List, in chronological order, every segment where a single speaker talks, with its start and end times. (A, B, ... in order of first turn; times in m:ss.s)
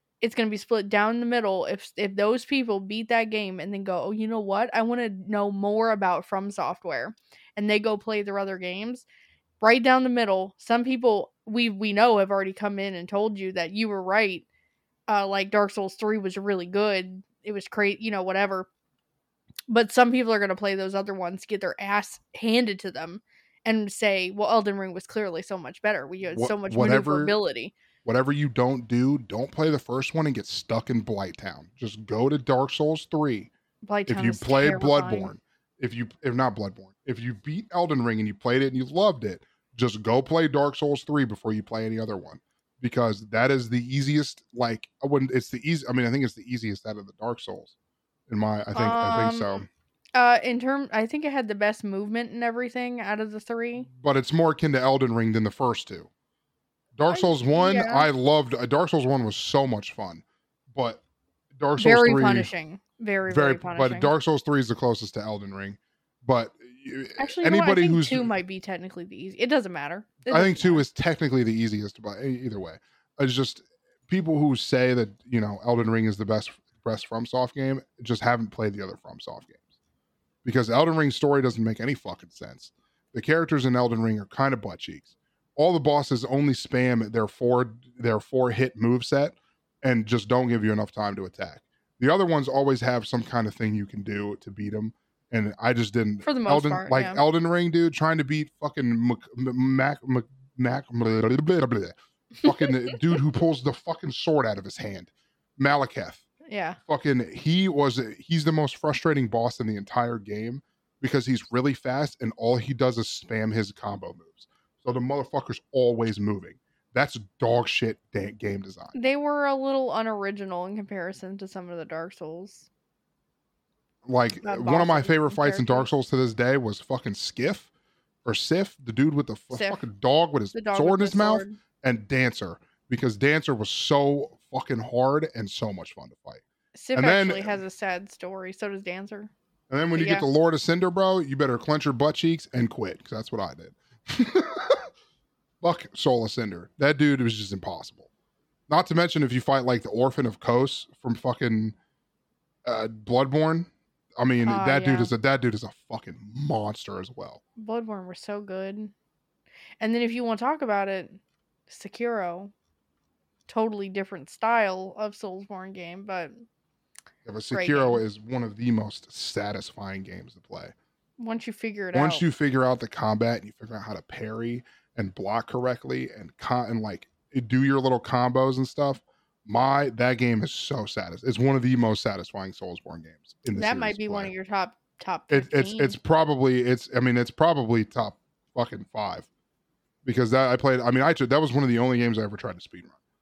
0:00.2-0:09.1 A
0:09.6-0:14.4 A
0:15.1-0:18.7 A
0:19.7-0:27.7 A
0:26.3-0:27.4 B
0:28.0-0:33.5 B
0:33.8-0:35.3 A
0:34.1-0:47.7 B
0:48.3-0:49.7 B
0:48.8-0:49.6 A
0:50.2-0:53.9 A
0:53.9-0:56.1 B
0:57.0-1:00.2 B
0:57.1-0:58.1 A
1:00.7-1:01.0 B
1:01.6-1:02.5 B
1:01.8-1:04.1 A
1:03.3-1:08.3 B
1:07.2-1:10.8 A
1:10.3-1:19.6 B
1:20.4-1:46.2 B
1:36.2-1:37.2 A
1:46.5-1:46.8 A
1:46.9-1:58.9 B
1:58.9-2:02.7 A
2:04.1-2:07.7 B
2:04.4-2:05.9 A
2:08.2-2:16.4 B
2:09.5-2:09.8 A
2:10.5-2:11.6 A
2:16.8-2:19.3 A
2:17.0-2:17.6 B
2:19.7-2:24.9 B
2:20.0-2:20.3 A
2:25.6-2:28.1 B
2:28.7-2:31.8 B
2:32.7-2:37.4 B
2:34.5-2:35.1 A
2:37.6-2:38.9 A
2:39.8-2:42.5 A
2:43.5-2:46.4 A
2:47.3-2:50.7 B
2:47.5-2:48.0 A
2:51.2-2:52.2 A
2:51.9-3:04.3 B
3:03.6-3:06.0 A
3:05.3-3:09.3 B
3:10.0-3:13.0 B